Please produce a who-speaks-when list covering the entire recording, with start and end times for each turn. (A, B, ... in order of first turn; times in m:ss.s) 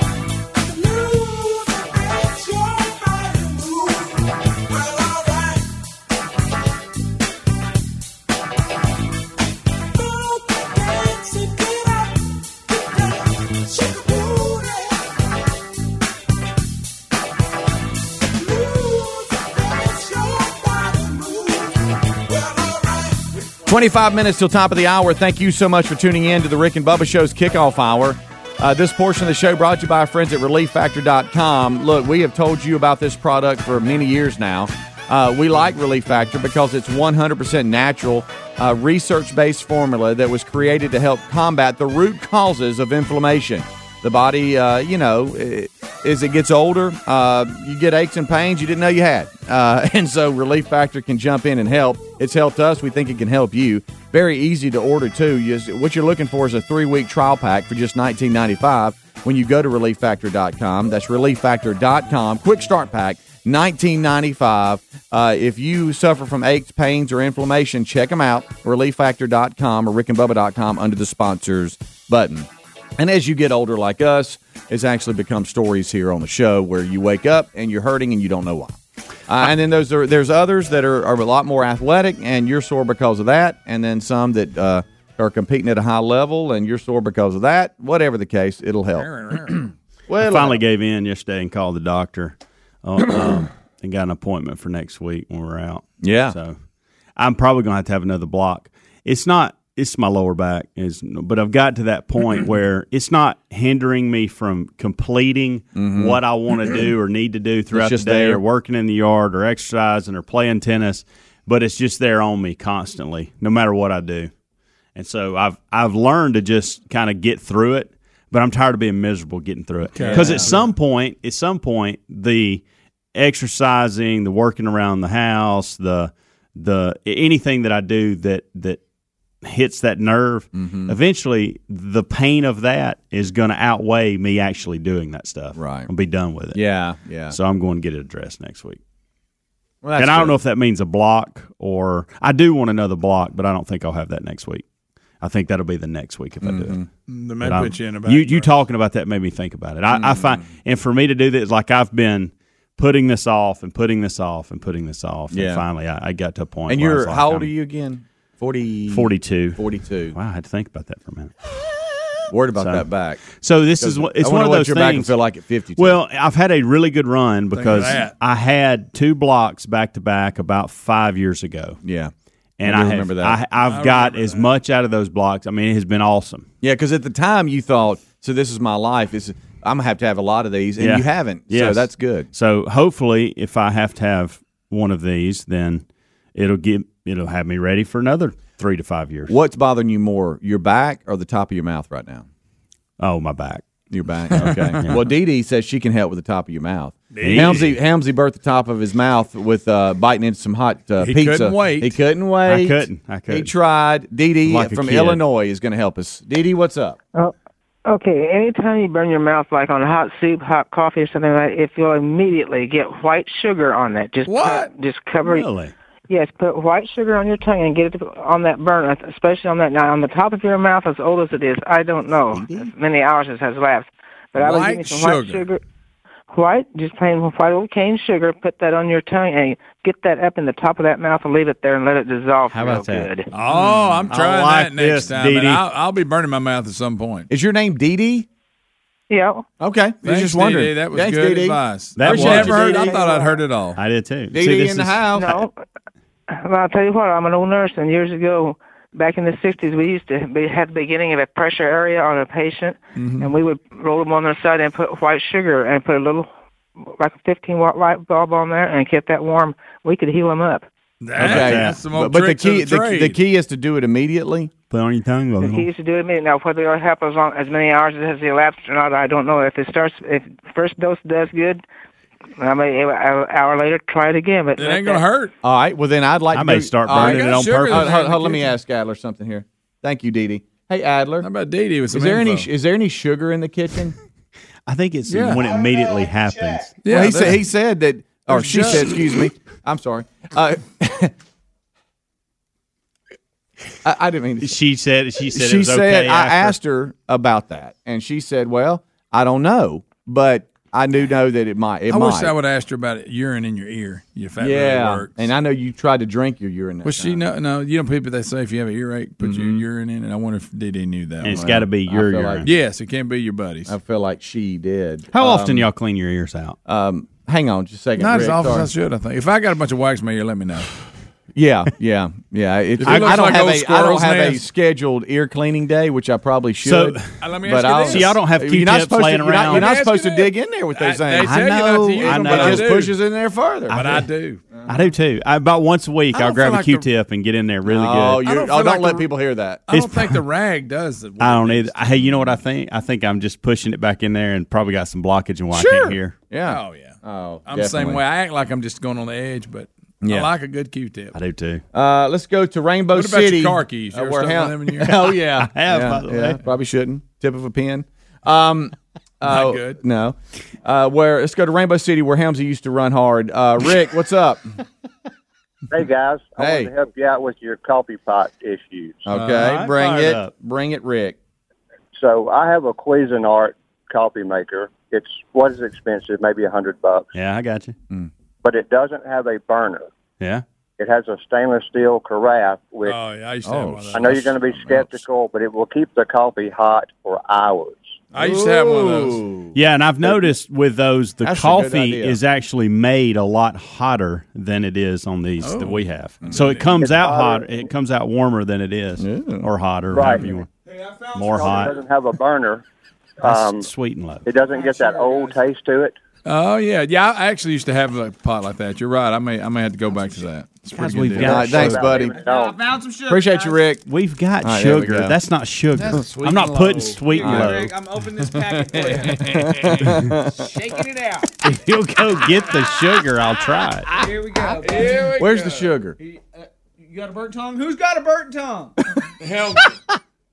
0:23.6-1:18.8 A
1:19.3-1:29.6 A
1:28.9-1:29.6 B
1:30.1-1:30.6 A
1:30.2-1:36.6 C
1:36.0-1:36.4 A
1:37.2-1:54.3 C
1:45.7-1:46.2 A
1:47.7-1:48.4 A
1:54.9-2:02.6 C
1:59.9-2:00.6 B
2:00.0-2:00.5 A
2:03.1-2:08.8 C
2:09.4-2:16.6 C
2:10.5-2:11.0 A
2:15.6-2:15.9 A
2:16.5-2:17.4 A
2:17.3-2:18.8 C
2:19.8-2:20.4 A
2:20.0-2:24.6 C
2:25.2-2:26.8 C
2:26.4-2:26.9 A
2:27.1-2:28.5 B
2:27.4-2:37.5 C
2:29.9-2:30.4 A
2:35.3-2:35.6 A
2:36.7-2:40.2 A
2:38.9-2:39.6 C
2:40.1-2:41.4 C
2:42.3-2:43.2 A
2:42.6-2:45.1 C
2:43.8-2:46.0 A
2:45.8-2:51.8 C
2:47.5-2:48.1 B
2:51.8-2:52.1 A
2:52.6-2:56.5 C
2:52.6-2:53.4 A
2:53.6-2:54.5 B
2:56.6-3:02.3 A
3:00.8-3:09.3 C
3:09.3-3:12.2 A
3:13.0-3:13.6 C
3:13.9-3:27.0 A
3:14.3-3:15.1 C
3:17.1-3:17.6 B
3:17.2-3:17.8 C
3:21.0-3:21.9 B
3:22.5-3:23.5 C
3:24.4-3:25.2 C
3:27.8-3:35.5 D
3:34.2-3:34.7 B
3:35.2-3:35.7 C
3:36.1-3:45.6 D
3:42.3-3:42.7 A
3:44.3-3:45.5 B
3:46.3-3:53.3 D
3:52.5-3:53.1 C
3:53.3-3:57.3 B
3:54.1-3:55.6 C
3:57.3-3:58.3 A
3:59.1-3:59.4 D
3:59.6-4:02.9 A
4:00.0-4:03.8 B
4:02.0-4:03.0 C
4:02.6-4:03.4 D
4:03.8-4:05.0 C
4:04.3-4:05.4 A
4:05.1-4:05.5 D
4:06.3-4:16.3 D
4:13.0-4:13.3 B
4:17.0-4:20.7 D
4:21.0-4:23.2 B
4:21.2-4:21.8 C
4:21.2-4:24.5 A
4:24.7-4:25.7 C
4:25.4-4:31.6 D
4:32.4-4:35.0 D
4:34.6-4:35.3 B
4:35.4-4:41.3 A
4:36.3-4:37.9 C
4:36.9-4:38.5 B
4:41.2-4:42.5 B
4:41.9-4:43.9 A
4:44.7-4:46.8 C
4:45.1-4:45.4 B
4:46.8-4:47.4 B
4:46.9-4:51.1 A
4:48.3-4:48.9 B
4:53.8-4:54.5 A
4:54.4-4:56.6 C
4:55.3-5:02.3 A
5:01.9-5:05.2 B
5:04.4-5:07.2 A
5:06.8-5:11.4 B
5:09.2-5:09.6 A
5:11.2-5:12.5 C
5:11.3-5:12.5 A
5:12.4-5:13.7 B
5:13.7-5:15.7 A
5:15.1-5:16.6 C
5:16.6-5:18.7 A
5:18.0-5:20.7 B
5:21.3-5:33.9 A
5:22.8-5:24.4 B
5:22.8-5:23.4 C
5:26.6-5:27.1 C
5:27.2-5:28.1 B
5:27.8-5:29.7 C
5:29.4-5:33.0 B
5:31.2-5:32.8 C
5:33.7-5:34.4 B
5:34.6-5:38.2 C
5:36.1-5:36.9 B
5:37.7-5:39.6 A
5:38.2-5:39.1 B
5:39.7-5:42.3 B
5:39.7-5:40.2 C
5:41.2-5:46.2 C
5:45.5-5:48.0 A
5:46.4-5:51.1 B
5:50.0-5:50.3 A
5:51.1-5:51.6 C
5:51.7-6:04.4 A
5:52.9-5:54.9 B
5:54.9-5:56.4 C
5:59.2-5:59.8 B
6:05.7-6:09.0 E
6:06.4-6:06.7 A
6:09.0-6:11.2 A
6:09.1-6:10.3 C
6:11.9-6:17.1 E
6:17.1-6:17.7 C
6:18.4-6:19.9 E
6:20.8-6:23.0 E
6:22.8-6:24.3 B
6:23.4-6:25.0 A
6:23.9-6:28.0 E
6:28.1-6:29.2 B
6:28.2-6:30.3 A
6:29.5-6:40.5 C
6:31.2-6:32.2 A
6:35.4-6:36.8 B
6:36.8-6:37.5 E
6:39.0-6:39.5 A
6:39.9-6:40.3 E
6:40.8-6:41.1 F
6:41.1-6:41.8 C
6:41.3-6:42.6 E
6:43.2-6:43.7 E
6:43.2-6:44.3 C
6:44.2-6:45.9 E
6:44.5-6:45.3 F
6:46.2-6:51.4 B
6:50.7-6:51.9 C
6:51.1-6:52.2 A
6:51.5-6:52.6 E
6:51.9-6:53.6 F
6:53.1-6:53.8 A
6:53.8-6:57.7 C
6:54.4-6:55.2 A
6:55.8-6:57.0 B
6:57.1-6:59.5 F
6:57.2-6:57.5 A
6:58.7-7:00.4 A
6:58.7-7:00.0 B
7:00.2-7:01.4 F
7:01.4-7:04.0 C
7:02.2-7:02.7 F
7:03.9-7:05.1 F
7:04.6-7:05.7 B
7:05.1-7:06.0 A
7:06.0-7:08.7 F
7:09.2-7:09.8 B